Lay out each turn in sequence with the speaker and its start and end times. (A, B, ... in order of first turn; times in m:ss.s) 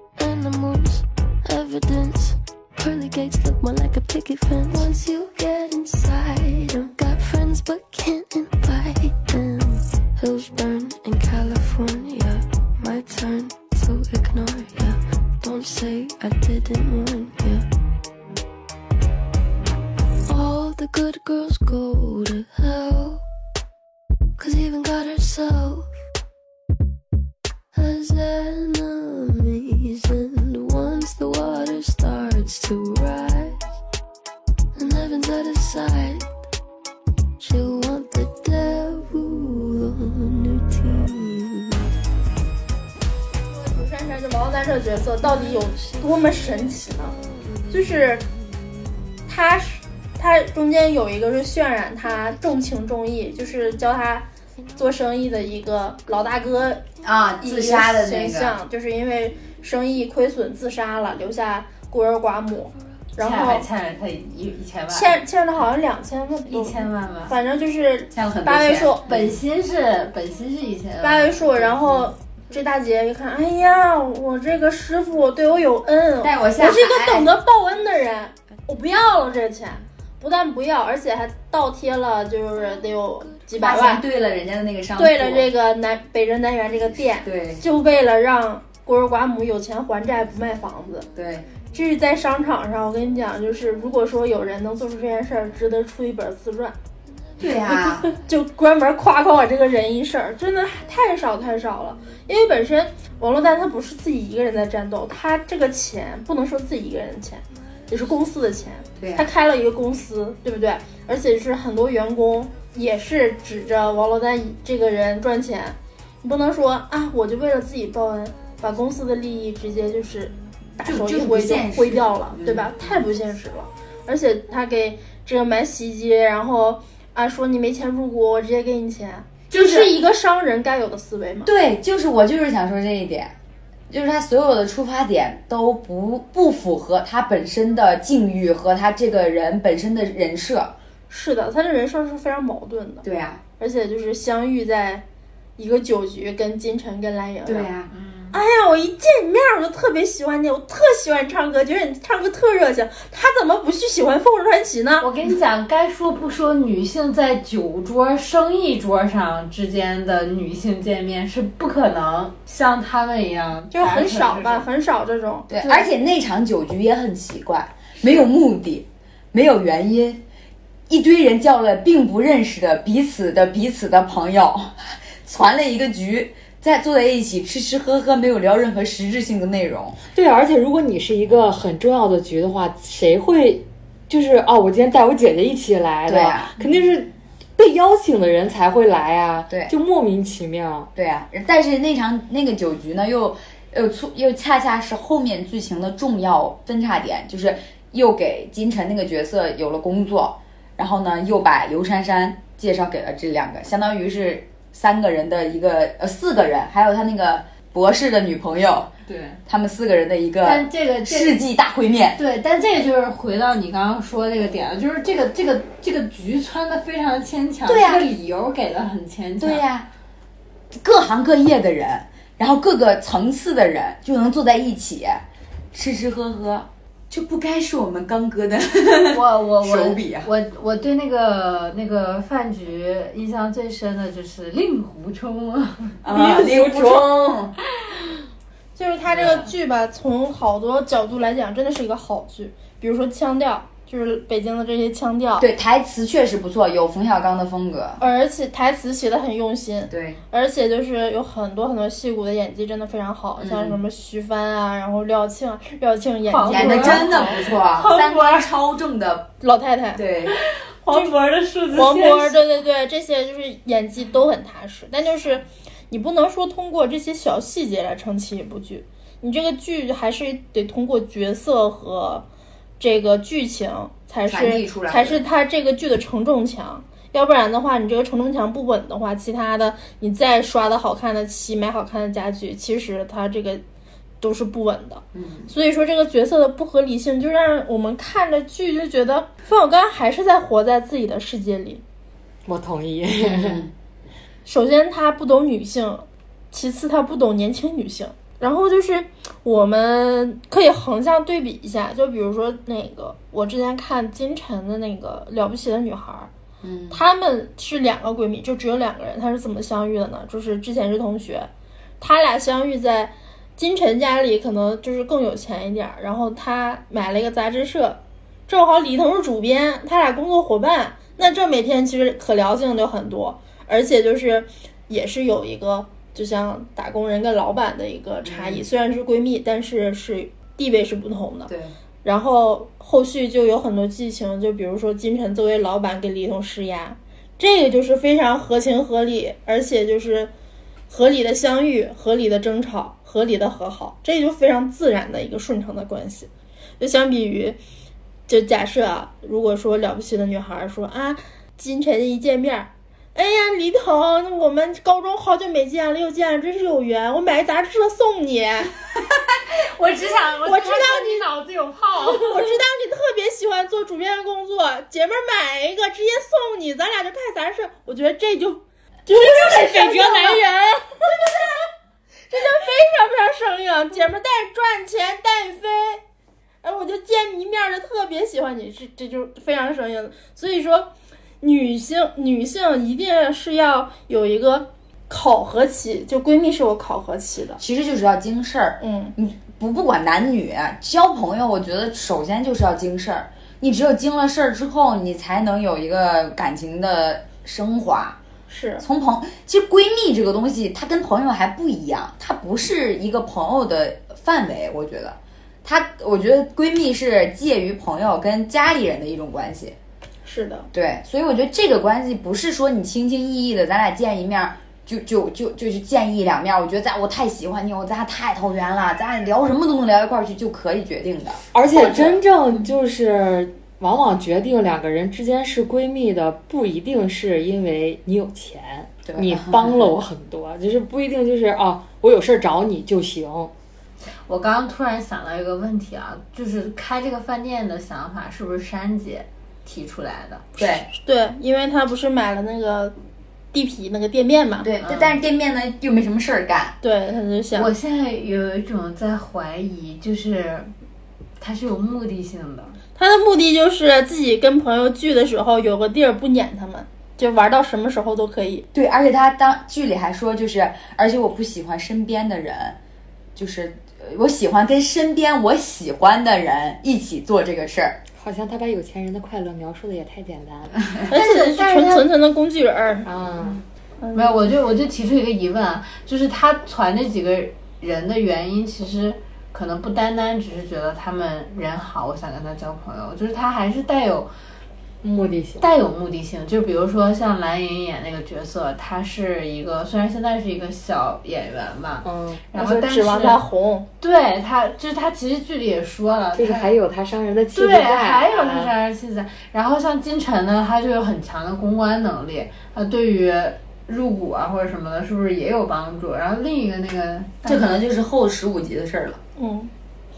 0:00.2-0:17.7 A
0:20.3-0:23.2 A
0:24.4-0:25.9 A
0:27.7-0:33.6 A
0:34.8-0:36.2 A
0:37.4-0:41.9 A
0:43.5-0:47.1 B
0:45.2-0:48.2 A
0:47.7-0:48.2 B
0:49.3-0:56.8 B
0:57.0-0:58.6 C
0:57.4-1:03.7 B
1:03.2-1:05.2 D
1:04.9-1:09.0 B
1:06.5-1:07.3 D
1:08.1-1:09.4 C
1:09.1-1:12.1 D
1:11.0-1:24.0 B
1:16.2-1:17.3 C
1:23.6-1:25.5 C
1:25.0-1:31.1 B
1:27.2-1:27.6 C
1:31.2-1:31.5 C
1:31.7-1:36.8 B
1:37.4-1:38.1 C
1:38.1-2:11.5 B
1:49.0-1:49.3 C
2:00.8-2:02.8 C
2:09.5-2:09.9 C
2:11.4-2:13.3 C
2:13.9-2:20.8 C
2:21.1-2:23.0 B
2:23.0-2:23.4 C
2:23.6-2:25.0 B
2:25.6-2:27.7 B
2:27.5-2:27.9 C
2:27.9-2:28.4 D
2:28.3-2:35.1 B
2:35.0-2:44.7 D
2:43.7-2:45.9 B
2:45.5-2:50.2 C
2:50.9-3:00.0 C
3:00.1-3:10.9 E
3:06.1-3:06.5 C
3:11.0-3:28.9 C
3:29.1-3:29.4 D
3:29.5-3:32.2 C
3:30.4-3:31.4 D
3:32.2-3:39.6 D
3:37.6-3:38.1 C
3:39.4-3:39.9 C
3:40.8-3:50.3 C
3:49.0-3:56.0 D
3:56.0-3:57.5 C
3:56.1-3:57.1 E
3:58.8-4:05.5 B
4:05.4-4:08.0 C
4:08.0-4:17.4 B
4:09.9-4:10.2 C
4:13.4-4:13.8 C
4:16.3-4:18.5 D
4:16.4-4:19.3 C
4:19.4-4:20.0 B
4:20.0-4:20.4 C
4:20.3-4:22.4 D
4:20.9-4:21.1 B
4:21.7-4:32.3 B
4:32.8-4:43.6 B
4:34.3-4:35.2 C
4:44.2-4:51.8 B
4:45.1-4:45.5 C
4:52.5-4:53.6 E
4:53.2-4:53.7 C
4:54.4-5:06.3 B
5:06.6-5:07.0 C
5:06.9-5:11.5 B
5:12.0-5:31.5 B
5:28.2-5:28.6 C
5:31.5-5:31.7 C
5:32.0-5:40.3 B
5:40.9-5:47.6 B
5:48.3-5:58.7 B
5:59.5-6:02.5 D
6:00.4-6:01.2 B
6:02.2-6:10.4 B
6:09.1-6:10.8 E
6:11.1-6:11.6 B
6:12.3-6:16.0 B
6:16.6-6:20.9 B
6:21.4-6:27.6 B
6:27.6-6:38.2 C
6:28.8-6:29.1 B
6:38.5-6:38.8 B
6:38.8-6:49.8 C
6:50.2-6:50.7 B
6:50.7-7:02.7 C
7:01.5-7:13.5 E
7:09.1-7:10.0 C
7:14.3-7:20.5 D
7:20.6-7:20.9 C
7:20.6-7:22.9 B
7:23.5-7:24.7 B
7:24.6-7:26.8 C
7:24.8-7:25.2 D
7:26.8-7:27.7 B
7:27.6-7:30.7 D
7:31.4-7:32.8 D
7:33.0-7:38.7 B
7:38.7-7:42.8 C
7:43.4-7:48.0 C
7:48.2-7:50.8 E
7:51.1-7:53.1 B
7:51.1-7:52.0 D
7:53.0-7:53.6 E
7:54.0-7:54.3 B
7:54.1-8:04.3 D
8:05.0-8:05.6 E
8:05.6-8:13.4 D
8:12.0-8:12.4 E
8:12.6-8:13.9 B
8:14.0-8:16.8 D
8:16.3-8:18.7 E
8:17.5-8:27.8 D
8:27.4-8:29.2 C
8:29.4-8:29.7 B